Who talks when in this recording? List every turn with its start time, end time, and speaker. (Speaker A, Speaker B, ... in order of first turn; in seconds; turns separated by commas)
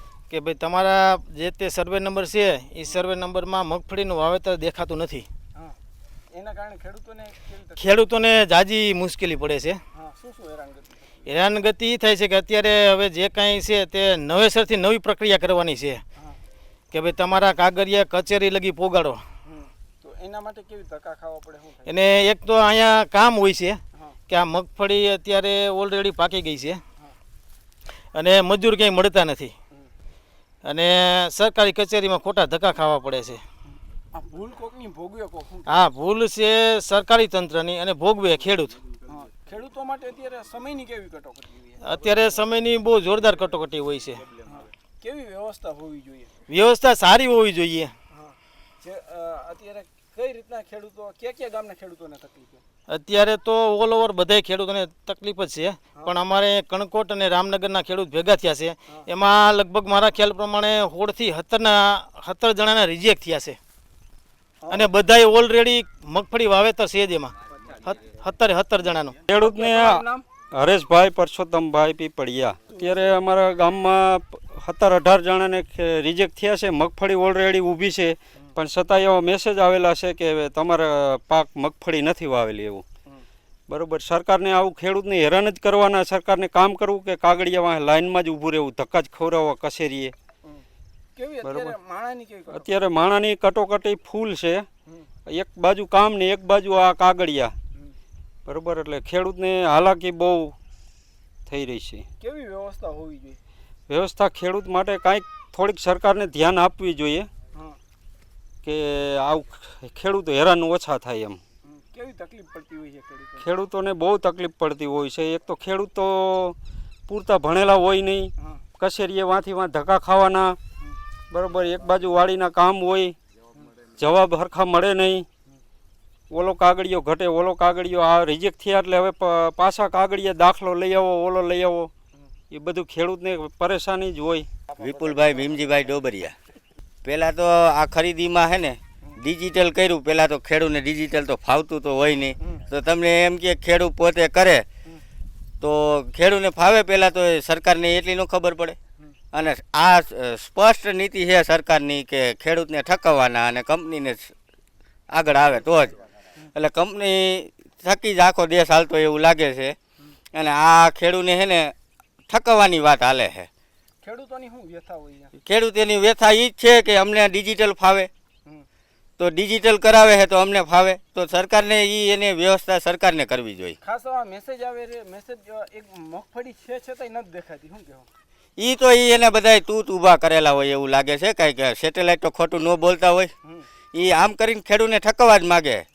Speaker A: 0.3-5.3, Speaker B: 6.3-7.9, Speaker A: 7.8-9.8, Speaker B: 9.9-11.2, Speaker A: 11.2-16.0, Speaker A: 16.9-19.2, Speaker B: 19.4-22.0, Speaker A: 21.9-26.8, Speaker A: 28.1-29.5, Speaker A: 30.6-33.4, Speaker B: 34.1-35.9, Speaker A: 35.7-38.8, Speaker B: 39.0-41.9, Speaker A: 41.8-44.2, Speaker B: 44.4-46.4, Speaker A: 46.5-47.9, Speaker B: 48.1-52.6, Speaker A: 52.9-63.6, Speaker B: 64.6-65.0, Speaker A: 64.7-69.2, Speaker C: 69.3-82.8, Speaker B: 69.3-70.2, Speaker B: 72.7-73.2, Speaker C: 83.7-90.1, Speaker B: 91.2-92.7, Speaker C: 91.4-91.7, Speaker C: 92.5-94.7, Speaker C: 95.2-97.5, Speaker C: 98.5-100.5, Speaker C: 101.5-102.0, Speaker B: 102.2-103.4, Speaker C: 103.9-107.3, Speaker B: 107.5-107.8, Speaker C: 108.6-111.4, Speaker B: 111.6-113.5, Speaker C: 113.4-116.5, Speaker C: 117.1-120.6, Speaker C: 121.3-123.2, Speaker C: 123.8-125.2, Speaker C: 126.3-131.9, Speaker C: 132.5-134.5, Speaker D: 134.8-136.3, Speaker D: 137.0-144.7, Speaker D: 145.6-148.8, Speaker D: 149.3-154.3, Speaker D: 155.1-159.8, Speaker D: 160.3-161.7, Speaker D: 162.3-163.5, Speaker B: 164.0-165.3, Speaker D: 165.4-168.1, Speaker D: 169.2-173.8, Speaker B: 173.8-178.1, Speaker D: 178.6-183.3, Speaker D: 183.9-185.8